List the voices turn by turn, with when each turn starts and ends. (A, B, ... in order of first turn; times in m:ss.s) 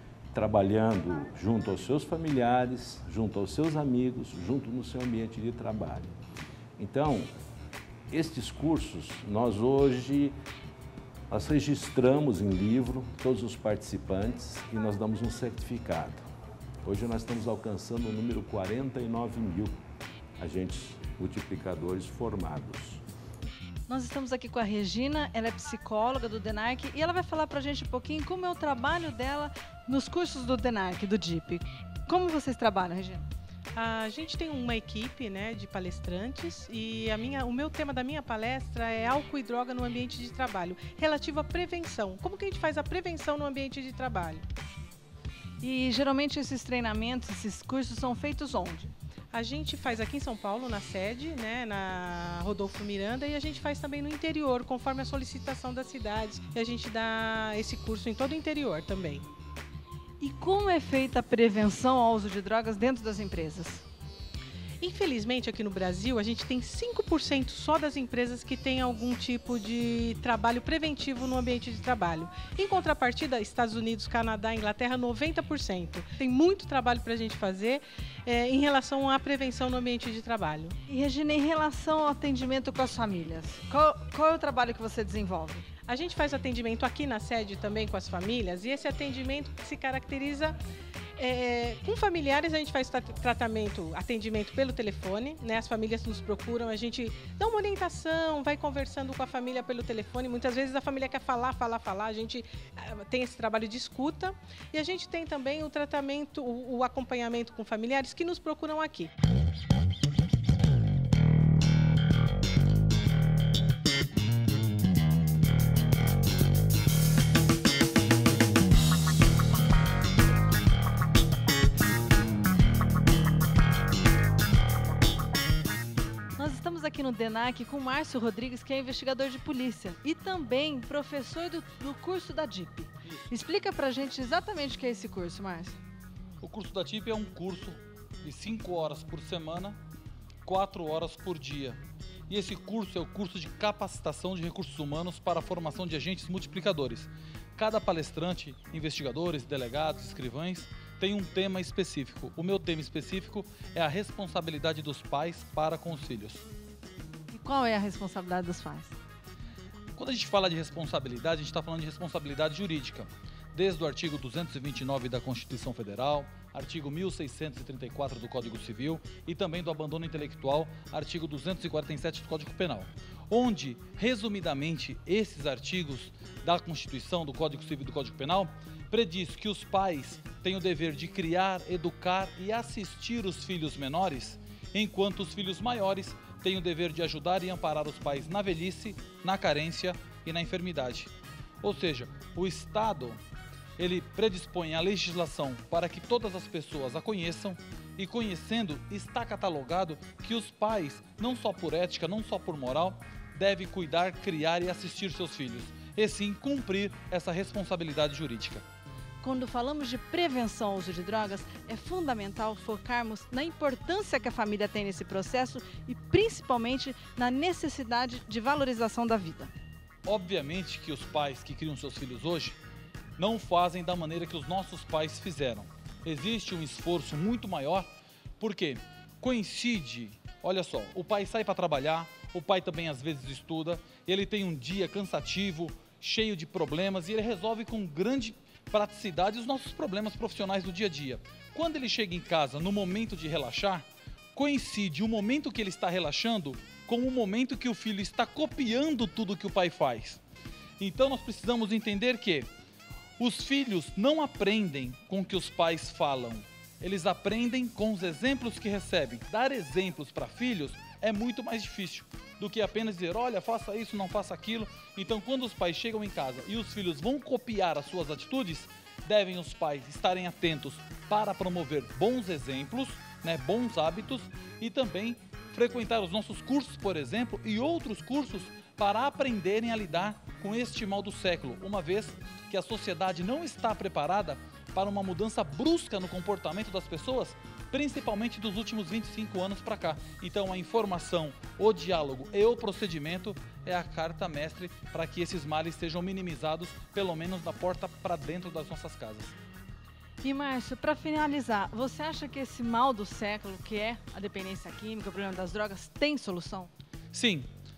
0:00.3-0:06.1 A
0:06.8-0:07.3 A
0:08.1-0:10.4 A
0:11.3-0:16.2 A
0:16.8-0:19.7 A
0:20.4-0:23.0 A
0:23.9-0:33.3 B
0:33.7-0:44.5 C
0:45.6-0:48.9 B
0:49.3-0:59.3 C
1:00.2-1:03.8 B
1:04.8-1:20.8 C
1:20.9-1:25.7 B
1:25.9-1:30.6 C
1:31.2-1:49.1 C
2:06.4-2:15.8 B
2:16.4-2:19.8 D
2:20.5-2:36.5 D
2:37.3-2:39.0 B
2:40.0-3:13.2 D
3:13.8-3:28.6 D
3:29.2-3:39.5 B
3:40.1-3:42.6 D
3:43.2-3:47.9 D
3:48.4-4:10.2 D
4:10.8-4:12.5 D
4:13.2-4:59.4 D
5:00.2-5:06.7 B
5:07.1-5:07.5 D